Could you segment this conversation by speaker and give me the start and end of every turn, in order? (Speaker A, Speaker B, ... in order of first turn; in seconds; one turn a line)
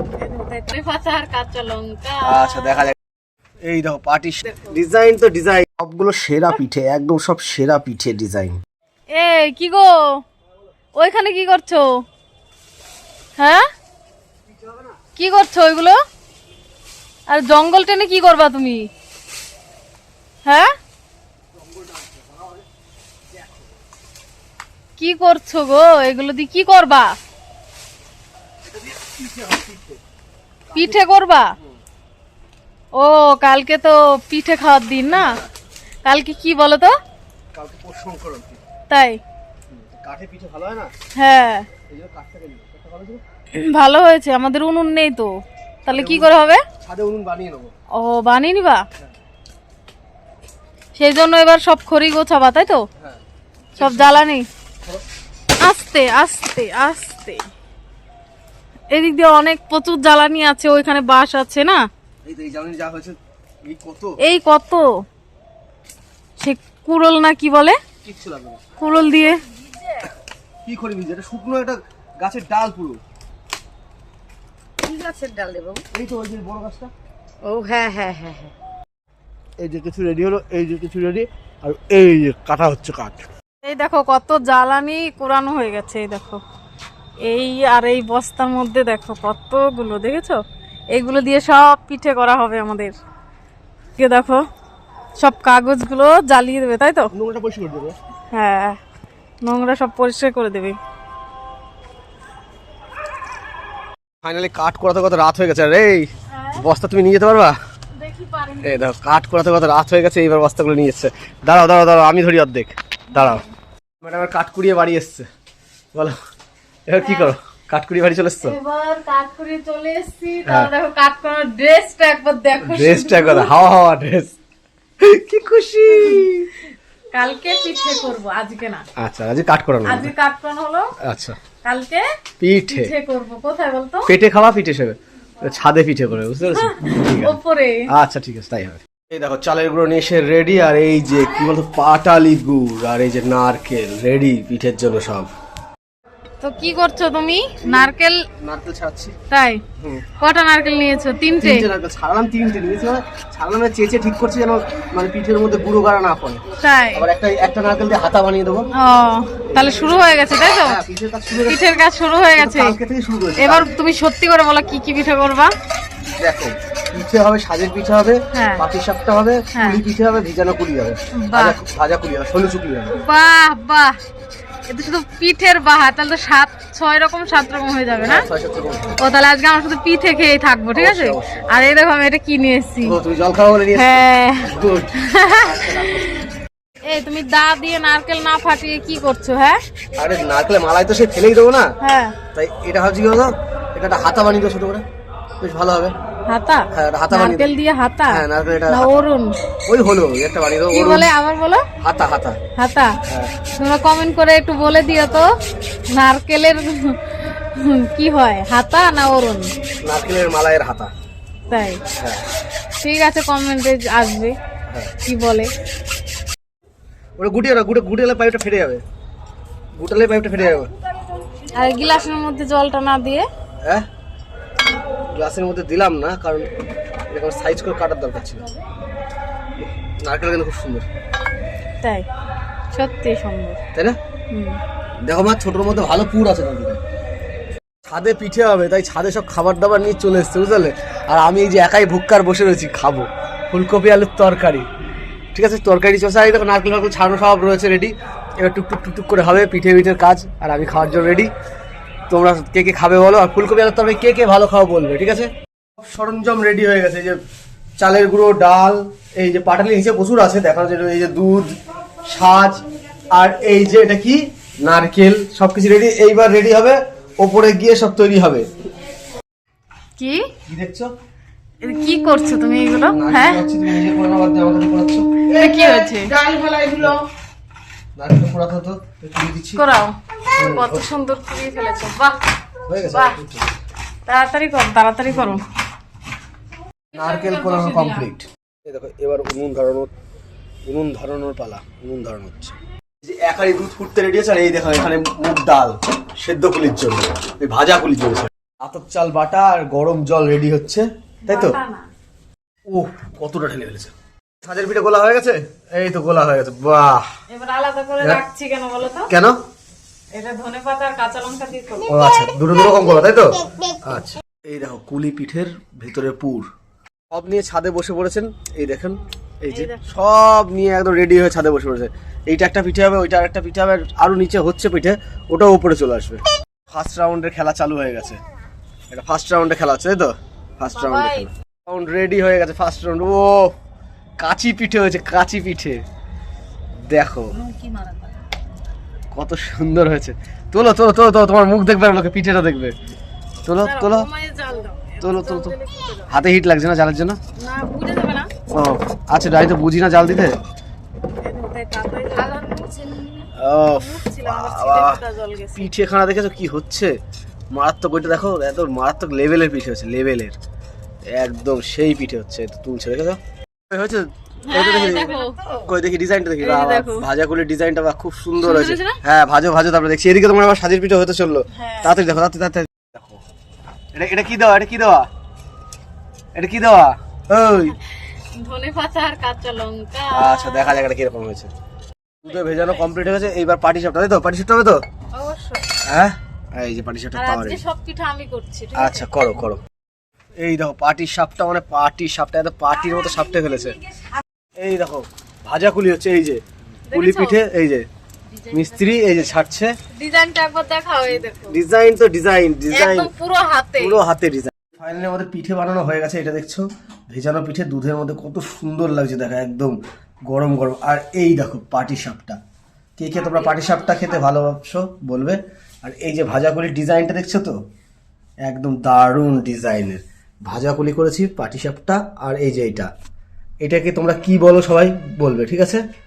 Speaker A: 0.2-2.9
Speaker B: 2.2-3.0
Speaker B: 3.6-8.6
Speaker A: 9.1-10.2
Speaker A: 10.9-12.0
Speaker A: 13.4-13.7
Speaker A: 15.2-16.0
Speaker A: 17.3-18.9
Speaker A: 20.4-20.7
Speaker B: 21.5-22.6
Speaker B: 23.3-23.6
Speaker A: 25.0-27.2
Speaker B: 28.7-30.0
Speaker B: 30.7-31.0
Speaker A: 30.7-31.6
Speaker A: 32.9-35.4
Speaker B: 35.1-35.5
Speaker A: 36.0-36.9
Speaker B: 37.5-38.6
Speaker A: 38.9-39.2
Speaker B: 39.7-40.9
Speaker A: 41.1-41.7
Speaker B: 41.9-43.2
Speaker A: 43.5-45.3
Speaker A: 45.9-46.6
Speaker B: 45.9-47.7
Speaker A: 47.9-48.8
Speaker A: 51.0-52.9
Speaker B: 53.7-54.2
Speaker A: 53.8-54.5
Speaker A: 55.6-57.5
Speaker A: 58.9-61.8
Speaker B: 62.2-64.2
Speaker A: 64.2-65.0
Speaker A: 66.4-67.8
Speaker B: 68.0-68.6
Speaker A: 68.8-69.4
Speaker B: 70.7-73.0
Speaker C: 74.8-75.8
Speaker B: 75.9-76.9
Speaker C: 77.4-78.5
Speaker B: 79.6-83.2
Speaker A: 83.6-86.4
Speaker A: 87.2-90.4
Speaker A: 90.9-92.9
Speaker A: 94.0-94.4
Speaker A: 95.2-97.1
Speaker B: 97.1-98.0
Speaker A: 98.3-98.8
Speaker A: 99.4-100.8
Speaker B: 104.2-107.6
Speaker A: 106.3-106.7
Speaker A: 108.0-108.8
Speaker B: 108.6-113.4
Speaker A: 113.1-113.4
Speaker B: 114.0-115.3
Speaker B: 116.9-118.6
Speaker A: 117.0-117.3
Speaker A: 118.4-123.5
Speaker B: 122.6-124.3
Speaker B: 125.0-126.5
Speaker A: 125.9-126.2
Speaker A: 127.1-128.9
Speaker B: 129.0-130.1
Speaker A: 129.8-130.9
Speaker B: 131.0-131.4
Speaker A: 131.6-132.1
Speaker B: 132.4-132.9
Speaker A: 132.7-134.1
Speaker B: 134.1-137.4
Speaker A: 136.5-137.9
Speaker B: 137.9-145.3
Speaker A: 146.4-148.2
Speaker B: 147.6-149.1
Speaker A: 149.3-149.6
Speaker B: 149.8-150.1
Speaker A: 150.2-151.7
Speaker B: 151.4-156.4
Speaker A: 156.6-157.1
Speaker B: 156.9-158.7
Speaker A: 158.8-160.8
Speaker B: 159.4-161.6
Speaker A: 161.4-162.8
Speaker B: 162.3-163.7
Speaker A: 163.4-165.5
Speaker B: 166.2-173.0
Speaker A: 168.3-168.6
Speaker A: 169.5-169.8
Speaker A: 171.1-171.6
Speaker A: 172.9-174.0
Speaker A: 174.7-178.2
Speaker B: 178.0-179.0
Speaker A: 179.0-183.0
Speaker B: 180.7-181.4
Speaker B: 182.8-186.1
Speaker A: 183.7-185.7
Speaker A: 186.8-189.6
Speaker B: 190.0-191.7
Speaker A: 191.8-192.2
Speaker B: 192.3-194.8
Speaker B: 195.4-195.9
Speaker A: 196.3-199.3
Speaker B: 196.7-197.5
Speaker B: 198.1-198.9
Speaker B: 199.7-201.1
Speaker A: 200.7-201.7
Speaker B: 201.8-202.4
Speaker A: 202.6-202.9
Speaker A: 203.6-205.3
Speaker A: 205.9-209.5
Speaker B: 209.8-210.9
Speaker A: 211.5-211.8
Speaker A: 212.8-214.3
Speaker A: 215.0-215.5
Speaker B: 217.2-218.8
Speaker B: 219.8-220.7
Speaker A: 221.5-223.3
Speaker B: 225.1-226.5
Speaker B: 227.1-228.5
Speaker B: 229.6-230.8
Speaker A: 232.7-233.6
Speaker A: 234.3-234.6
Speaker B: 235.0-236.8
Speaker B: 237.8-244.7
Speaker B: 245.3-251.3
Speaker B: 252.1-257.2
Speaker B: 257.8-268.5
Speaker A: 270.0-270.3
Speaker B: 270.5-270.9
Speaker A: 271.6-273.5
Speaker B: 272.9-275.3
Speaker A: 275.3-276.2
Speaker B: 276.2-277.1
Speaker B: 277.9-279.6
Speaker A: 279.6-283.2
Speaker B: 280.4-280.9
Speaker B: 282.6-283.5
Speaker A: 284.1-285.4
Speaker A: 286.9-288.0
Speaker B: 286.9-289.9
Speaker B: 290.7-301.6
Speaker A: 301.2-301.9
Speaker B: 302.7-307.1
Speaker A: 307.3-309.1
Speaker B: 309.1-309.4
Speaker A: 310.1-311.9
Speaker B: 311.9-316.5
Speaker B: 317.1-328.2
Speaker A: 319.5-319.8
Speaker B: 328.9-333.5
Speaker A: 330.7-331.3
Speaker B: 334.2-335.8
Speaker B: 336.9-337.3
Speaker A: 337.4-338.1
Speaker B: 339.1-342.7
Speaker B: 343.4-344.1
Speaker A: 343.6-346.1
Speaker B: 345.0-345.5
Speaker B: 346.1-347.2
Speaker A: 347.4-348.3
Speaker B: 348.5-350.4
Speaker A: 351.2-355.7
Speaker B: 353.3-355.0
Speaker B: 355.5-356.9
Speaker B: 357.5-360.4
Speaker B: 361.1-373.2
Speaker A: 364.4-365.7
Speaker A: 366.4-367.1
Speaker A: 368.4-369.0
Speaker A: 371.5-372.0
Speaker B: 373.9-375.1
Speaker B: 376.4-377.8
Speaker A: 378.2-380.8
Speaker B: 380.1-381.5
Speaker B: 382.2-384.8
Speaker A: 382.3-382.8
Speaker A: 385.1-385.7
Speaker B: 385.8-387.6
Speaker A: 387.1-389.1
Speaker B: 388.8-389.6
Speaker B: 390.4-393.8
Speaker B: 394.6-397.9
Speaker A: 396.9-397.4
Speaker B: 398.5-399.7
Speaker A: 399.9-401.6
Speaker B: 401.5-403.1
Speaker A: 402.7-404.0
Speaker B: 403.8-412.4
Speaker B: 413.0-417.5
Speaker B: 418.4-422.9
Speaker B: 423.6-425.8